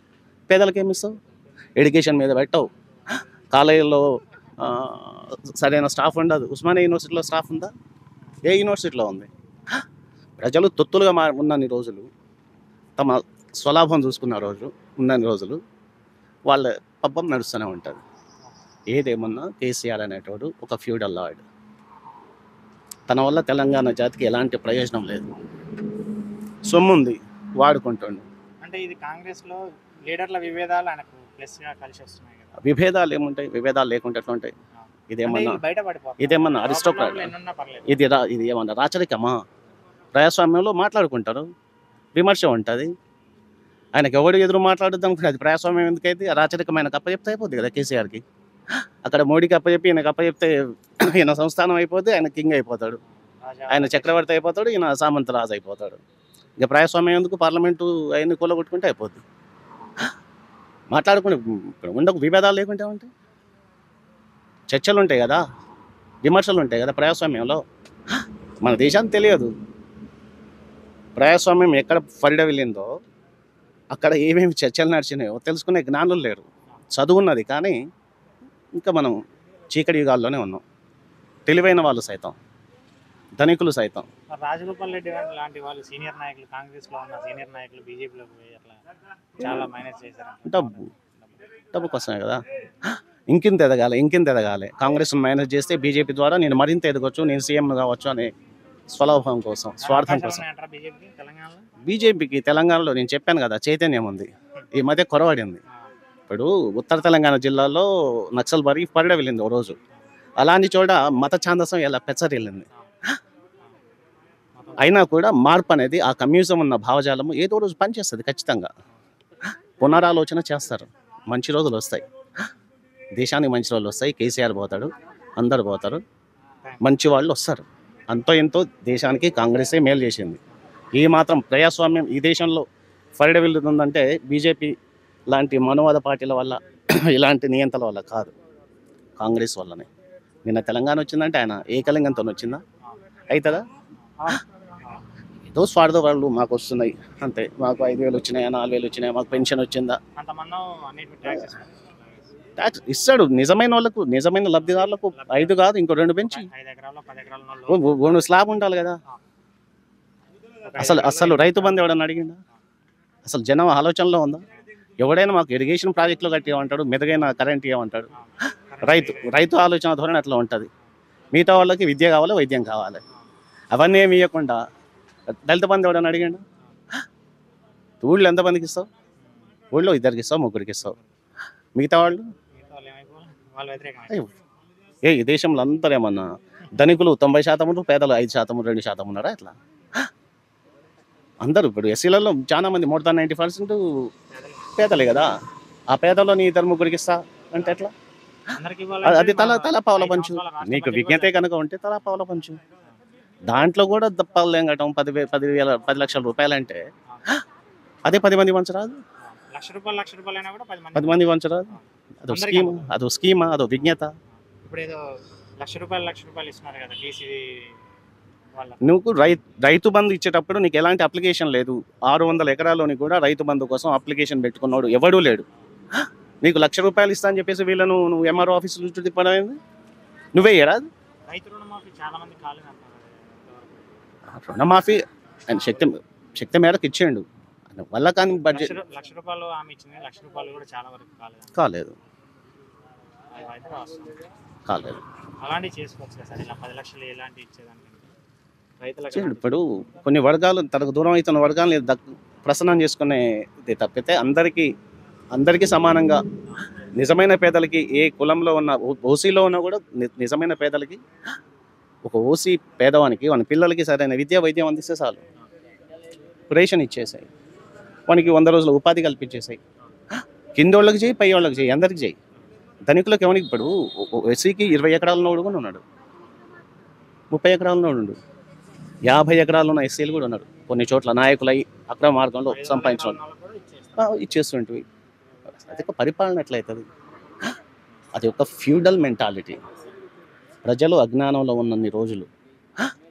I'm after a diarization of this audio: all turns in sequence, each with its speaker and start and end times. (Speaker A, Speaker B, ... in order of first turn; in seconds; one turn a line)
Speaker A: 0.5-1.1
Speaker A: 1.8-2.7
Speaker A: 3.5-4.0
Speaker A: 4.6-7.7
Speaker A: 8.4-9.3
Speaker A: 10.4-12.1
Speaker A: 13.0-15.6
Speaker A: 16.5-18.0
Speaker A: 18.9-21.4
Speaker A: 23.1-25.4
Speaker A: 26.7-28.3
Speaker B: 28.6-32.6
Speaker A: 32.6-34.5
Speaker B: 34.8-38.0
Speaker A: 35.1-35.6
Speaker A: 36.2-37.3
Speaker A: 37.9-39.4
Speaker A: 40.1-41.5
Speaker A: 42.1-42.9
Speaker A: 43.9-48.2
Speaker A: 49.0-53.0
Speaker B: 53.4-54.2
Speaker A: 53.7-56.0
Speaker A: 56.6-59.2
Speaker A: 60.9-63.1
Speaker A: 64.7-65.4
Speaker A: 66.2-67.6
Speaker A: 68.6-69.5
Speaker A: 71.2-73.0
Speaker A: 73.9-77.8
Speaker A: 78.8-79.2
Speaker A: 79.7-80.6
Speaker A: 81.5-82.4
Speaker A: 83.4-84.1
Speaker B: 84.3-88.8
Speaker B: 89.4-91.3
Speaker A: 90.5-90.9
Speaker A: 91.7-92.4
Speaker A: 93.3-98.3
Speaker A: 98.9-100.4
Speaker B: 99.8-101.7
Speaker A: 101.8-105.6
Speaker A: 106.3-109.8
Speaker A: 110.4-112.7
Speaker B: 114.6-114.9
Speaker A: 114.8-118.7
Speaker A: 119.8-122.0
Speaker A: 123.2-126.0
Speaker A: 126.8-130.4
Speaker A: 130.9-132.7
Speaker A: 133.2-134.7
Speaker A: 135.3-138.3
Speaker A: 139.2-139.9
Speaker A: 140.4-142.6
Speaker A: 143.3-143.7
Speaker B: 144.1-145.0
Speaker A: 145.6-150.0
Speaker B: 150.2-152.3
Speaker A: 152.6-156.5
Speaker B: 155.1-155.6
Speaker B: 156.2-158.4
Speaker A: 157.7-159.0
Speaker B: 160.7-161.8
Speaker A: 160.8-162.4
Speaker A: 163.2-164.4
Speaker A: 165.0-168.1
Speaker B: 168.1-169.4
Speaker A: 168.8-170.7
Speaker A: 171.3-173.0
Speaker A: 173.7-174.6
Speaker A: 175.5-176.4
Speaker A: 178.0-178.9
Speaker A: 179.7-181.0
Speaker A: 181.8-182.3
Speaker B: 182.5-184.3
Speaker A: 185.1-189.6
Speaker A: 191.4-193.8
Speaker B: 194.3-194.7
Speaker A: 194.8-195.3
Speaker A: 195.9-197.9
Speaker B: 198.5-201.4
Speaker A: 199.0-202.6
Speaker A: 203.4-206.8
Speaker A: 208.1-209.0
Speaker B: 209.2-212.9
Speaker A: 210.9-214.1
Speaker B: 214.4-215.0
Speaker B: 215.6-217.8
Speaker B: 218.6-219.0
Speaker A: 218.8-225.4
Speaker A: 226.0-229.6
Speaker A: 230.3-230.9
Speaker B: 231.3-234.0
Speaker A: 234.4-238.8
Speaker B: 238.5-241.6
Speaker A: 241.6-242.0
Speaker B: 243.3-244.2
Speaker A: 244.7-245.0
Speaker B: 245.4-248.1
Speaker B: 248.8-249.6
Speaker A: 249.1-254.7
Speaker A: 255.3-256.2
Speaker A: 257.0-261.0
Speaker A: 262.0-265.2
Speaker A: 266.5-267.3
Speaker A: 268.1-269.6
Speaker A: 270.6-272.2
Speaker A: 272.9-275.8
Speaker A: 277.3-278.2
Speaker A: 279.1-283.2
Speaker B: 282.5-284.2
Speaker A: 284.0-284.8
Speaker A: 285.6-286.9
Speaker A: 288.1-289.6
Speaker A: 290.6-292.3